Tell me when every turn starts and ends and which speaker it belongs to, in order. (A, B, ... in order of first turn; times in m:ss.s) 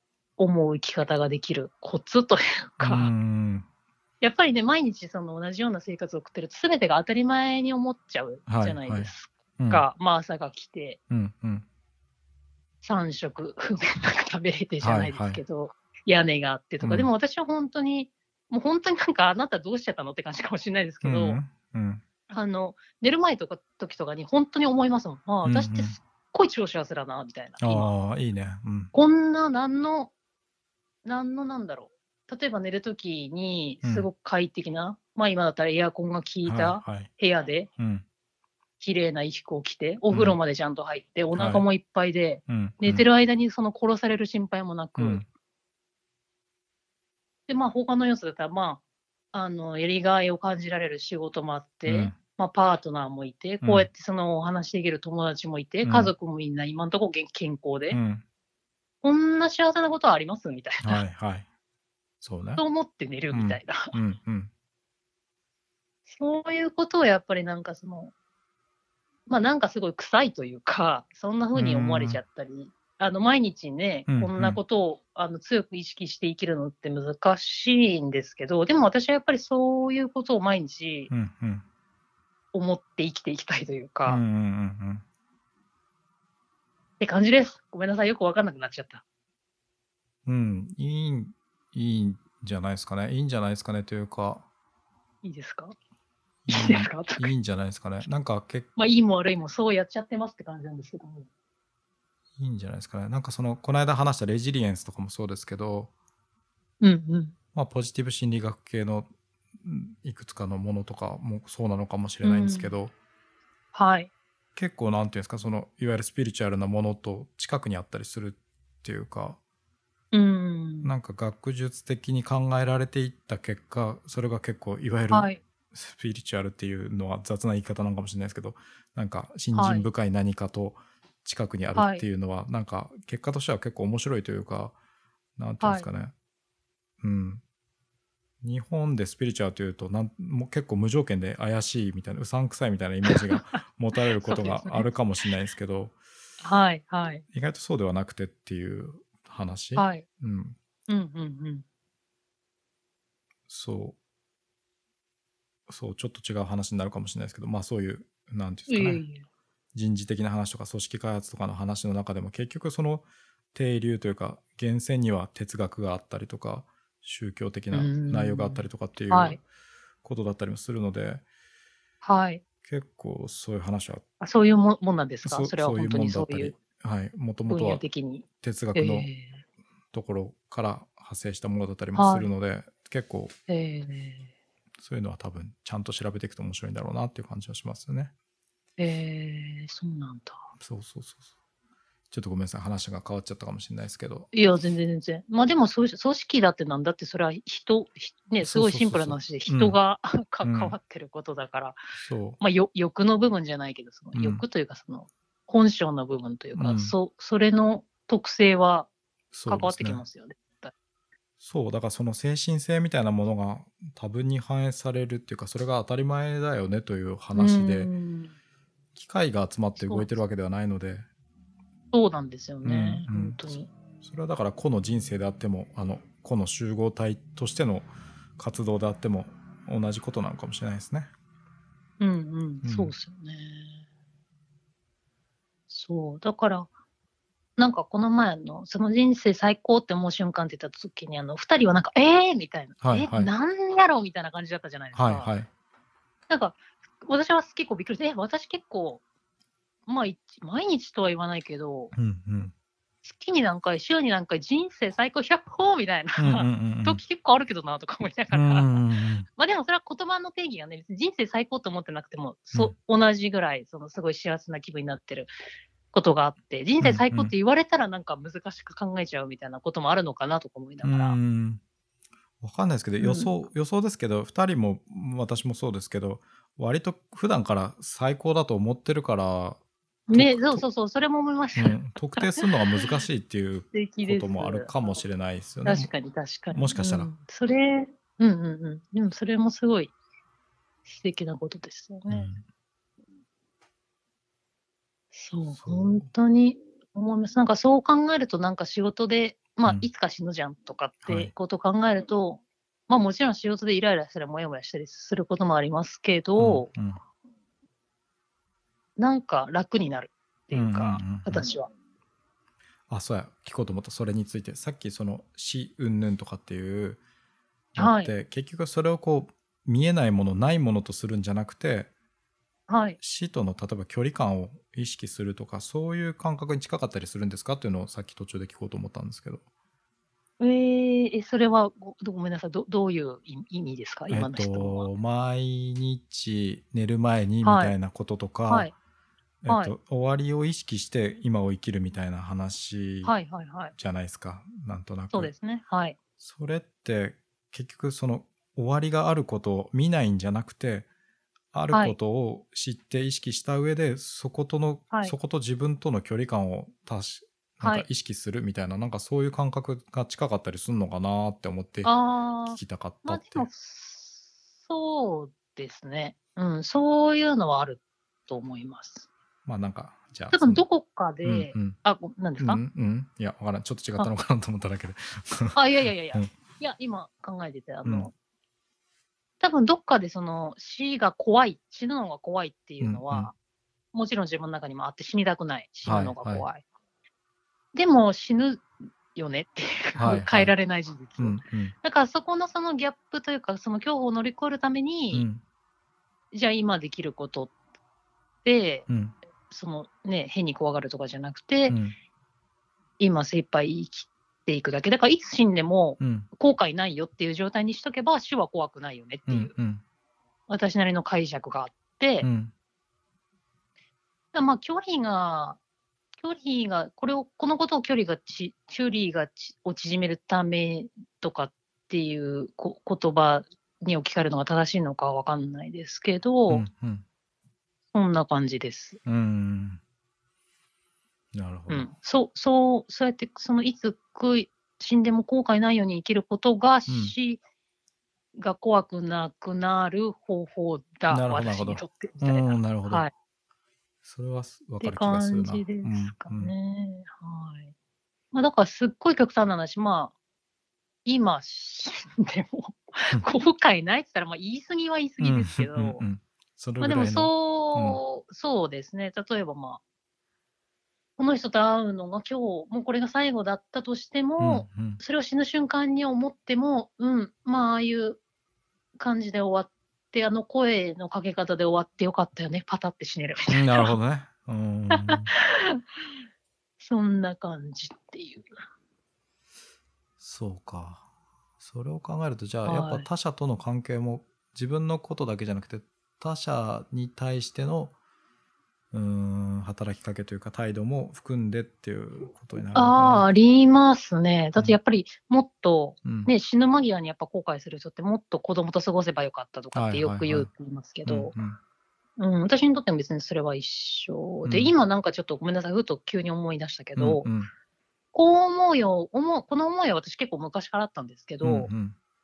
0:00.4-0:03.1 A
0:02.8-0:03.7 B
0:04.2-0:11.0 A
0:08.5-0:09.9 B
0:11.1-0:11.7 B
0:12.8-0:21.4 A
0:14.8-0:15.4 B
0:16.8-0:17.1 B
0:21.0-0:22.0 B
0:22.3-0:27.9 A
0:25.4-0:26.0 B
0:27.6-0:28.9 B
0:28.9-0:30.1 A
0:31.0-0:37.7 A
0:33.8-0:34.1 B
0:36.4-0:37.1 B
0:37.8-0:38.0 B
0:38.8-0:45.2 A
0:40.1-0:40.4 B
0:41.3-0:41.7 B
0:42.5-0:43.1 B
0:45.0-0:45.3 B
0:47.5-0:48.8 A
0:49.3-0:58.0 A
0:51.9-0:52.2 B
0:53.6-0:53.9 B
0:55.8-0:56.1 B
0:57.9-0:58.2 B
0:59.0-1:01.0 A
1:00.8-1:01.5 B
1:02.2-1:02.6 B
1:02.6-1:04.0 A
1:03.3-1:04.5 B
1:06.1-1:08.1 A
1:09.3-1:21.1 A
1:11.6-1:12.2 B
1:14.1-1:14.6 B
1:21.1-1:21.6 B
1:22.5-1:24.2 A
1:24.1-1:25.0 B
1:27.0-1:29.0 A
1:30.3-1:34.5 B
1:35.2-1:35.8 A
1:36.5-1:38.7 B
1:36.5-1:37.3 A
1:38.8-1:41.3 A
1:42.4-1:45.9 B
1:46.8-1:47.4 A
1:47.5-1:49.1 B
1:49.6-1:52.9 B
1:52.2-1:52.8 A
1:53.7-1:54.1 A
1:54.6-1:59.4 B
2:00.1-2:00.9 A
2:00.8-2:14.8 B
2:05.1-2:05.4 A
2:09.5-2:09.9 A
2:11.7-2:12.0 A
2:15.4-2:16.1 B
2:15.6-2:15.9 A
2:17.0-2:17.4 B
2:18.4-2:26.0 B
2:23.1-2:23.6 A
2:24.2-2:24.9 A
2:26.4-2:27.2 A
2:27.3-2:30.6 B
2:29.8-2:30.0 A
2:30.9-2:31.6 A
2:33.5-2:34.0 B
2:35.7-2:39.0 B
2:38.7-2:39.2 A
2:39.7-2:49.4 B
2:47.7-2:49.4 A
2:50.0-2:51.2 B
2:52.0-2:52.4 A
2:52.6-2:54.0 B
2:54.2-2:56.6 A
2:55.2-2:57.8 B
2:57.5-2:59.4 A
2:58.4-2:59.1 B
2:59.9-3:03.4 B
3:02.0-3:02.3 A
3:03.5-3:04.3 A
3:04.8-3:08.1 B
3:08.8-3:10.4 A
3:10.6-3:11.2 B
3:12.1-3:14.3 B
3:14.3-3:21.8 A
3:18.4-3:19.8 B
3:20.4-3:20.8 B
3:22.0-3:22.4 B
3:22.4-3:28.9 A
3:24.1-3:24.4 B
3:26.6-3:27.0 B
3:29.3-3:30.0 B
3:29.5-3:30.7 A
3:31.4-3:37.9 B
3:37.3-3:38.3 A
3:39.0-3:41.1 B
3:39.8-3:40.2 A
3:41.9-3:43.7 A
3:42.6-3:51.1 B
3:52.0-3:53.8 A
3:52.6-3:52.9 B
3:55.7-3:56.7 A
3:57.6-4:05.3 A
4:02.8-4:03.3 B
4:05.0-4:05.5 B
4:06.3-4:09.0 A
4:09.9-4:11.9 A
4:11.9-4:12.5 B
4:13.0-4:18.8 A
4:16.2-4:17.0 B
4:18.3-4:19.3 B
4:19.4-4:25.3 A
4:25.9-4:31.2 A
4:26.8-4:27.3 B
4:30.8-4:31.6 B
4:32.4-4:39.6 B
4:33.0-4:33.3 A
4:40.1-4:42.8 A
4:40.1-4:40.7 B
4:41.6-4:45.9 B
4:43.7-4:44.8 A
4:45.7-4:49.9 A
4:46.5-4:47.1 B
4:50.9-4:52.3 A
4:52.1-4:52.4 B
4:55.1-5:06.7 A
4:55.5-4:56.1 B
5:01.0-5:01.3 B
5:06.4-5:07.0 B
5:09.0-5:11.7 A
5:10.5-5:11.5 B
5:12.9-5:17.0 B
5:17.8-5:21.9 B
5:17.8-5:18.1 A
5:22.7-5:23.0 A
5:23.0-5:29.4 B
5:30.4-5:34.9 A
5:34.1-5:38.7 B
5:37.4-5:37.8 A
5:38.5-5:38.7 A
5:39.4-5:43.2 B
5:39.5-5:39.8 A
5:43.0-5:43.7 A
5:43.8-5:45.3 B
5:45.1-5:46.0 A
5:46.2-5:50.9 B
5:51.5-6:01.9 B
5:51.7-5:52.0 A
5:57.6-5:57.9 A
6:01.8-6:09.1 A
6:02.5-6:03.5 B
6:09.4-6:10.6 B
6:10.3-6:12.6 A
6:11.2-6:11.8 B
6:12.4-6:15.6 B
6:15.5-6:18.1 A
6:17.8-6:18.1 B
6:19.4-6:23.3 A
6:22.8-6:23.3 B
6:23.9-6:26.6 A
6:25.8-6:26.5 B
6:27.7-6:35.3 A
6:30.0-6:30.5 B
6:31.2-6:31.8 B
6:35.1-6:35.4 B
6:36.3-6:37.5 A
6:38.4-6:38.9 A
6:38.9-6:39.2 B
6:39.5-6:41.8 A
6:41.7-6:42.0 B
6:43.0-6:49.5 A
6:46.0-6:46.3 B
6:49.3-6:49.8 B
6:50.5-6:52.3 A
6:52.2-6:52.5 B
6:54.3-6:55.6 A
6:56.2-7:06.7 A
7:06.5-7:07.0 B
7:07.9-7:09.0 A
7:09.0-7:09.8 B
7:11.3-7:11.9 B
7:11.7-7:17.4 A
7:16.9-7:17.2 B
7:18.4-7:23.1 A
7:21.1-7:23.1 B
7:24.0-7:26.5 B
7:24.8-7:27.7 A
7:28.3-7:30.1 A
7:31.0-7:36.0 A
7:35.2-7:38.0 B
7:36.8-7:39.8 A
7:41.2-7:48.2 A
7:44.4-7:45.0 B
7:49.0-7:54.0 A
7:53.5-7:55.3 B
7:54.9-7:55.8 A
7:56.8-7:58.5 A
8:00.2-8:01.1 B
8:01.6-8:08.0 B
8:02.6-8:03.1 A
8:08.9-8:13.3 B
8:12.7-8:21.4 A
8:16.0-8:16.3 B
8:19.7-8:20.5 B
8:21.0-8:21.6 B
8:22.2-8:27.3 A
8:24.4-8:24.7 B
8:27.0-8:27.5 B
8:28.1-8:31.7 A
8:31.4-8:32.0 B